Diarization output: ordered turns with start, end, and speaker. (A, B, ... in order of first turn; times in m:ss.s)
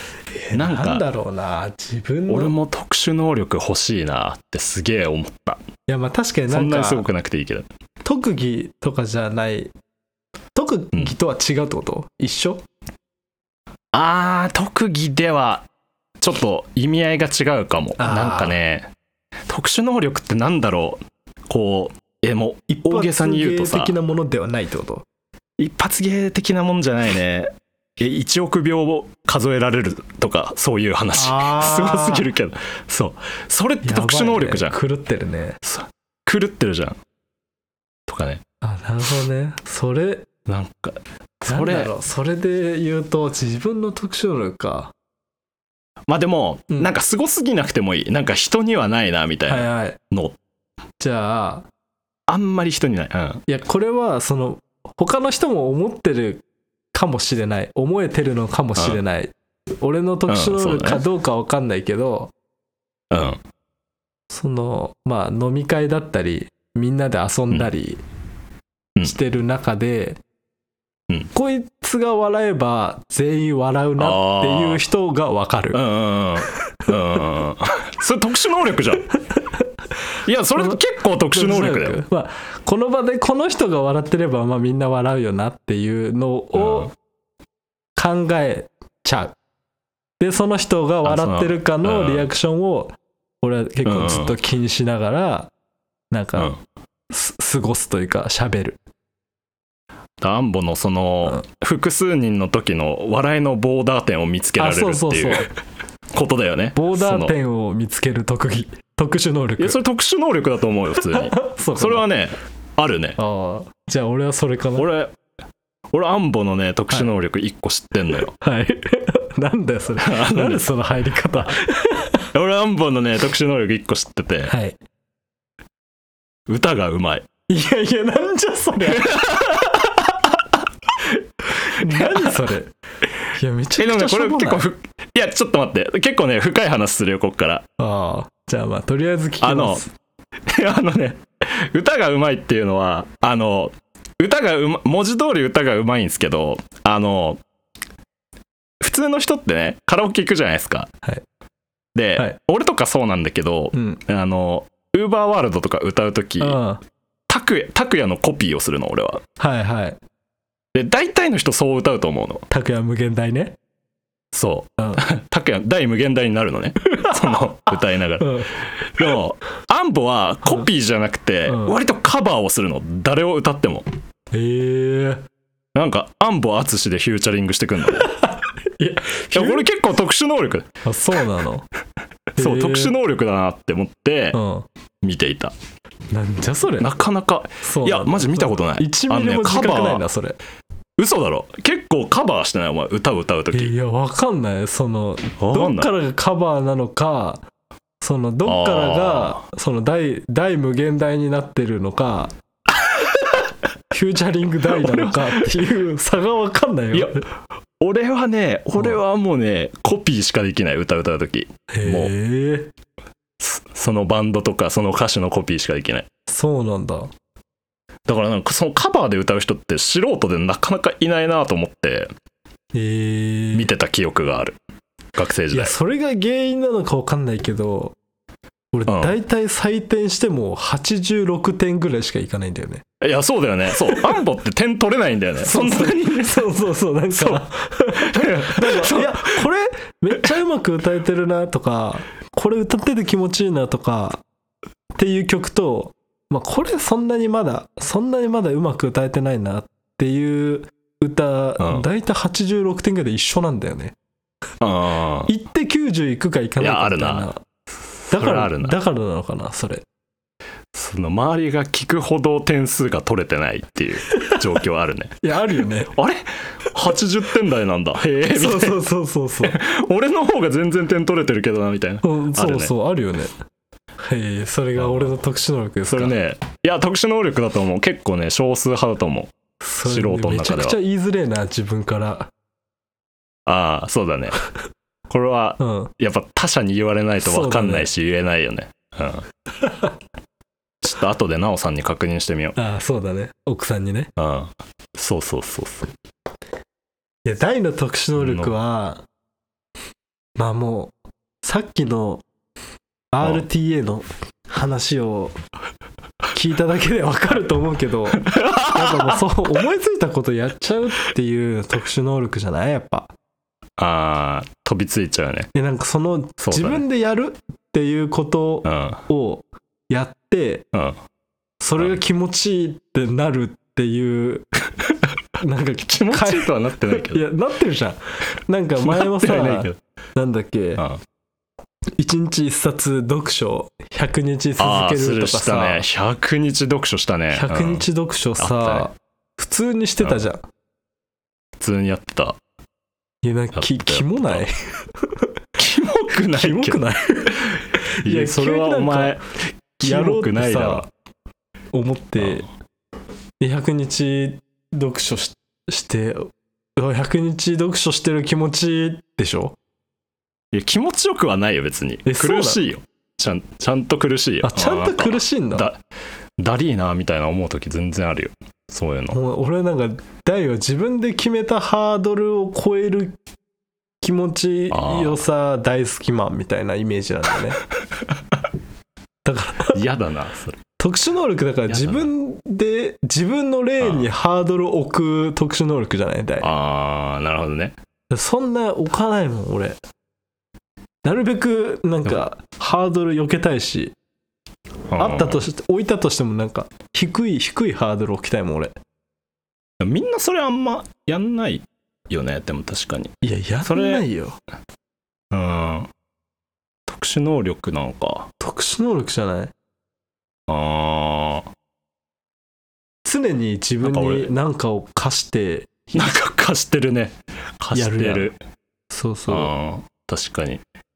0:00.4-0:02.5 A
0:00.5-0:01.1 B
0:02.3-0:05.6 B
0:05.9-0:07.1 A
0:06.5-0:07.7 B
0:08.0-0:09.7 A
0:10.6-0:12.6 A
0:13.9-0:15.7 B
0:16.2-0:18.9 B
0:18.0-0:18.6 A
0:19.5-0:23.9 B
0:22.7-0:25.0 A
0:25.6-0:34.8 B
0:31.1-0:32.3 A
0:33.8-0:35.6 A
0:35.6-0:37.0 B
0:38.1-0:38.4 B
0:38.6-0:40.3 A
0:40.5-0:41.9 B
0:41.5-0:44.9 A
0:46.1-0:50.4 B
0:49.5-0:50.0 A
0:51.0-0:51.7 A
0:52.3-0:53.4 B
0:53.5-1:02.3 A
1:00.3-1:01.0 B
1:03.1-1:03.4 B
1:04.3-1:08.0 A
1:09.0-1:10.2 A
1:11.3-1:15.8 A
1:14.0-1:14.8 B
1:15.7-1:19.1 B
1:20.2-1:22.0 B
1:20.6-1:26.9 A
1:26.6-1:26.9 B
1:28.0-1:29.4 A
1:30.2-1:35.5 A
1:31.0-1:32.3 B
1:33.9-1:34.4 B
1:36.1-1:36.5 A
1:37.1-1:38.8 A
1:40.2-1:45.5 B
1:44.6-1:45.5 A
1:46.1-1:47.4 B
1:46.8-1:49.8 A
1:49.6-1:53.2 B
1:51.1-1:52.1 A
1:53.2-1:54.9 A
1:54.8-1:55.2 B
1:55.9-1:58.3 B
1:58.4-2:02.3 A
2:00.0-2:00.7 B
2:02.3-2:04.5 B
2:04.5-2:04.8 A
2:06.5-2:07.3 B
2:07.5-2:10.2 A
2:08.9-2:09.7 B
2:11.1-2:12.7 A
2:11.8-2:12.4 B
2:13.3-2:14.7 A
2:13.8-2:17.7 B
2:17.8-2:19.9 A
2:19.4-2:19.8 B
2:20.5-2:27.4 B
2:28.8-2:30.9 B
2:32.0-2:36.6 B
2:33.7-2:34.0 A
2:36.4-2:36.8 A
2:37.3-2:39.2 B
2:39.4-2:40.0 A
2:40.7-2:42.4 B
2:42.5-2:43.6 A
2:44.3-2:53.9 B
2:44.8-2:45.1 A
2:46.8-2:47.5 A
2:48.2-2:49.2 A
2:51.5-2:51.8 A
2:54.3-2:55.2 A
2:55.8-2:58.1 B
2:58.0-2:59.7 A
2:59.3-3:00.7 B
3:00.8-3:01.7 A
3:02.4-3:03.0 A
3:02.4-3:04.4 B
3:04.3-3:04.7 A
3:05.0-3:05.5 B
3:06.1-3:06.9 A
3:06.8-3:10.0 B
3:07.6-3:10.4 A
3:11.0-3:13.7 B
3:13.5-3:17.4 A
3:15.4-3:15.9 B
3:18.0-3:22.3 A
3:18.4-3:19.4 B
3:23.9-3:27.2 A
3:24.7-3:25.5 B
3:26.9-3:27.2 B
3:27.8-3:32.1 B
3:31.7-3:32.7 A
3:33.4-3:36.1 B
3:36.3-3:37.1 A
3:38.1-3:42.1 B
3:42.7-3:43.7 A
3:43.5-3:44.6 B
3:45.2-3:45.7 B
3:45.5-3:48.0 A
3:48.7-3:52.8 A
3:48.9-3:49.2 B
3:53.0-3:56.5 B
3:53.8-3:54.2 A
3:55.4-4:04.2 A
3:57.1-3:59.4 B
4:05.0-4:14.0 A
4:11.6-4:11.9 B
4:14.6-4:15.3 B
4:15.3-4:17.4 A
4:16.6-4:17.3 B
4:18.1-4:18.8 B
4:18.1-4:19.8 A
4:20.7-4:25.2 B
4:25.2-4:25.9 A
4:25.9-4:28.8 B
4:28.3-4:29.6 A
4:29.4-4:32.7 B
4:32.0-4:33.3 A
4:34.0-4:36.2 A
4:34.8-4:35.1 B
4:35.9-4:39.3 B
4:39.6-4:42.3 A
4:39.8-4:40.8 B
4:43.5-4:44.4 B
4:45.1-4:49.3 B
4:45.6-4:45.9 A
4:47.2-4:47.9 A
4:49.6-4:49.9 A
4:50.8-4:52.6 B
4:52.6-4:54.1 A
4:54.2-4:55.9 B
4:57.3-4:59.0 A
4:58.2-4:58.5 B
5:00.4-5:02.2 A
5:03.1-5:05.4 A
5:06.3-5:13.1 A
5:08.2-5:09.2 B
5:13.8-5:15.5 B
5:15.5-5:20.6 A
5:16.4-5:16.8 B
5:18.6-5:19.0 B
5:21.6-5:24.5 A
5:25.4-5:30.8 A
5:25.9-5:27.2 B
5:28.8-5:29.8 B
5:32.0-5:35.9 A
5:34.6-5:37.8 B
5:37.3-5:40.4 A
5:38.4-5:38.9 B
5:41.6-5:42.4 B
5:43.2-5:45.3 A
5:43.6-5:44.5 B
5:45.6-5:46.9 B
5:46.3-5:49.2 A
5:48.0-5:50.9 B
5:49.8-5:50.9 A
5:51.7-5:52.5 A
5:53.4-5:59.6 A
6:00.5-6:05.8 B
6:02.0-6:02.6 A
6:04.4-6:05.7 A
6:06.4-6:09.2 B
6:09.1-6:13.2 A
6:14.0-6:17.6 A
6:14.7-6:15.2 B
6:19.2-6:19.8 A
6:19.7-6:20.6 B
6:20.8-6:26.5 A
6:21.7-6:22.1 B
6:23.8-6:24.1 B
6:26.4-6:27.8 B
6:28.1-6:29.8 A
6:31.0-6:34.0 A
6:34.9-6:35.4 B
6:35.0-6:38.8 A
6:39.8-6:44.0 B
6:43.2-6:44.4 A
6:45.3-6:45.9 B
6:46.9-6:48.3 B
6:48.4-6:49.5 A
6:50.5-6:51.5 B
6:53.0-6:56.0 A
6:53.8-6:54.3 B
6:55.9-6:58.4 B
6:57.7-6:58.3 A
6:58.9-6:59.5 A
6:59.3-7:00.6 B